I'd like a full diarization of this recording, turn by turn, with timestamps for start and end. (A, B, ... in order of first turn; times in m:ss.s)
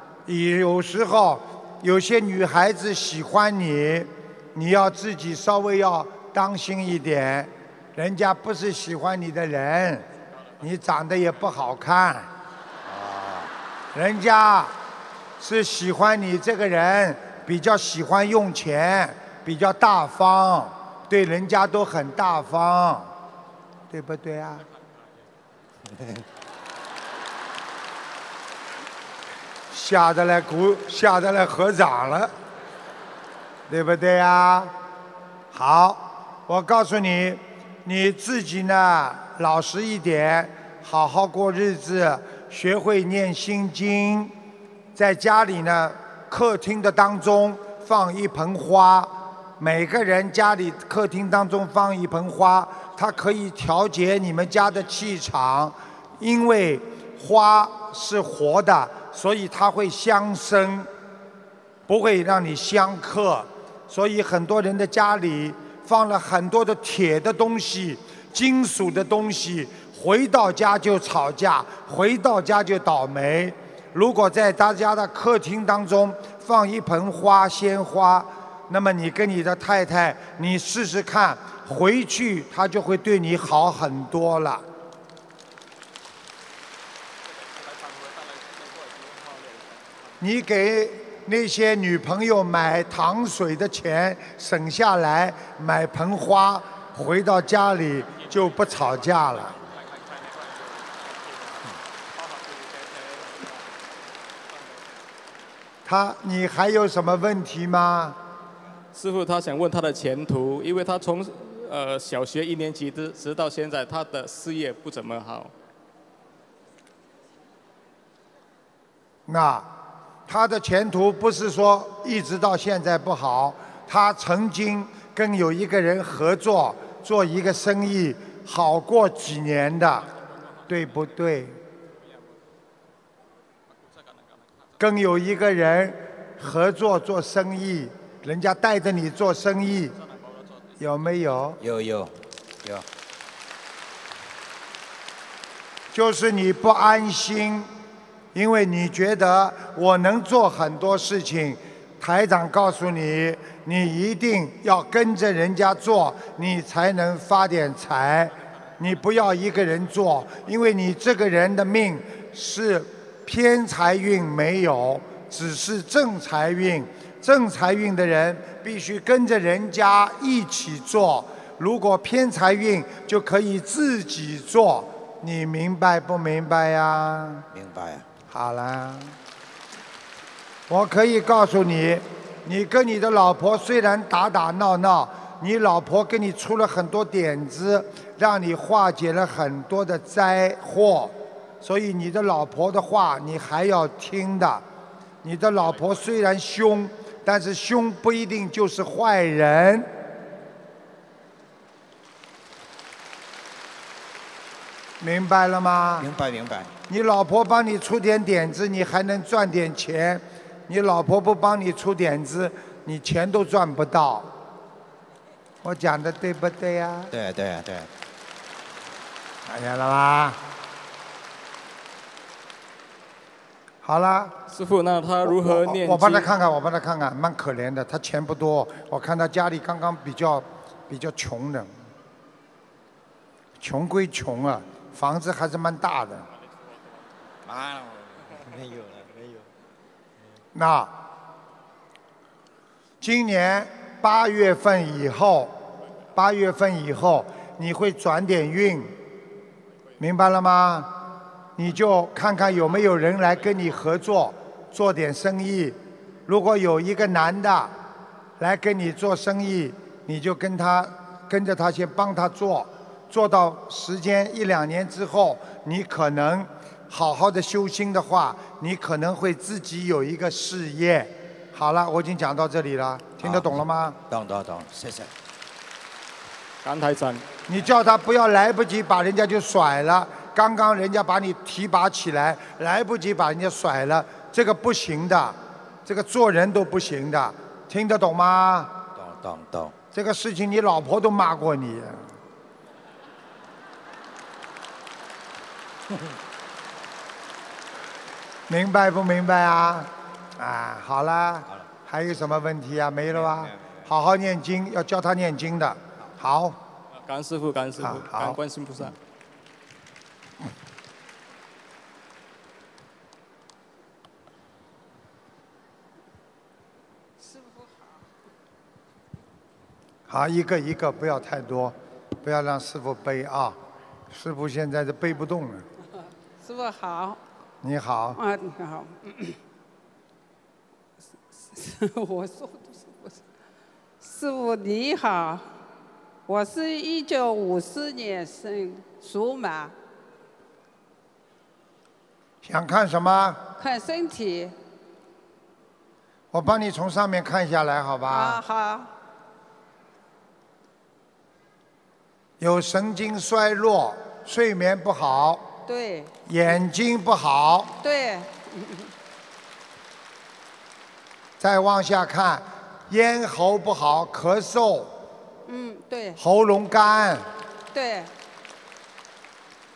0:00.3-0:10.1 A
0:10.6-0:12.3 A
0:12.8-0:13.5 B
0:13.9-0:14.8 A
0:15.4-0:23.1 A
0:23.9-0:24.7 A
0:29.7-0:32.3 A
0:33.7-0:34.7 A
0:35.5-0:44.3 A
0:45.0-1:00.9 A
1:01.9-1:24.7 A
1:30.2-1:39.6 A
1:42.4-1:43.5 C
1:45.8-1:48.2 A
1:48.9-1:55.5 C
1:59.3-1:59.7 A
2:00.3-2:10.1 A
2:10.7-2:11.6 A
2:14.8-2:20.0 A
2:20.8-2:21.6 A
2:21.6-2:22.8 B
2:25.9-2:27.7 A
2:28.3-2:57.5 A
2:57.5-2:58.1 B
2:58.3-2:59.2 A
3:00.7-3:14.6 A
3:15.2-3:19.9 A
3:25.0-3:26.1 A
3:26.0-3:26.7 B
3:26.9-3:34.3 A
3:35.6-3:37.1 A
3:37.1-3:37.9 B
3:39.5-3:40.4 A
3:43.8-3:44.4 A
3:44.5-3:46.3 C
3:45.2-3:51.8 A
3:53.6-3:56.3 A
3:57.5-3:59.5 B
4:00.5-4:00.9 A
4:03.0-4:05.5 A
4:06.2-4:08.9 A
4:10.0-4:11.0 A
4:11.6-4:17.7 A
4:18.4-4:34.0 A
4:33.2-4:33.5 B
4:34.1-4:35.1 B
4:36.6-4:37.2 C
4:37.5-4:48.8 A
4:49.0-4:49.8 B
4:49.9-4:52.1 A
4:58.5-5:06.6 A
5:03.1-5:03.9 B
5:07.0-5:09.0 C
5:07.8-5:08.4 A
5:17.2-5:18.0 D
5:20.1-5:23.6 A
5:24.1-5:25.7 A
5:26.4-5:27.2 D
5:27.6-5:28.2 A
5:28.2-5:29.4 D
5:31.3-5:33.2 D
5:34.0-5:35.5 D
5:36.3-5:39.8 D
5:42.4-5:43.4 A
5:43.6-5:44.5 D
5:46.3-5:48.4 A
5:48.1-5:48.9 D
5:52.4-5:55.5 A
5:55.7-5:56.2 D
5:56.3-5:57.7 A
5:57.8-5:58.9 D
6:01.4-6:04.9 A
6:05.5-6:06.2 D
6:06.2-6:07.3 A
6:07.7-6:08.1 D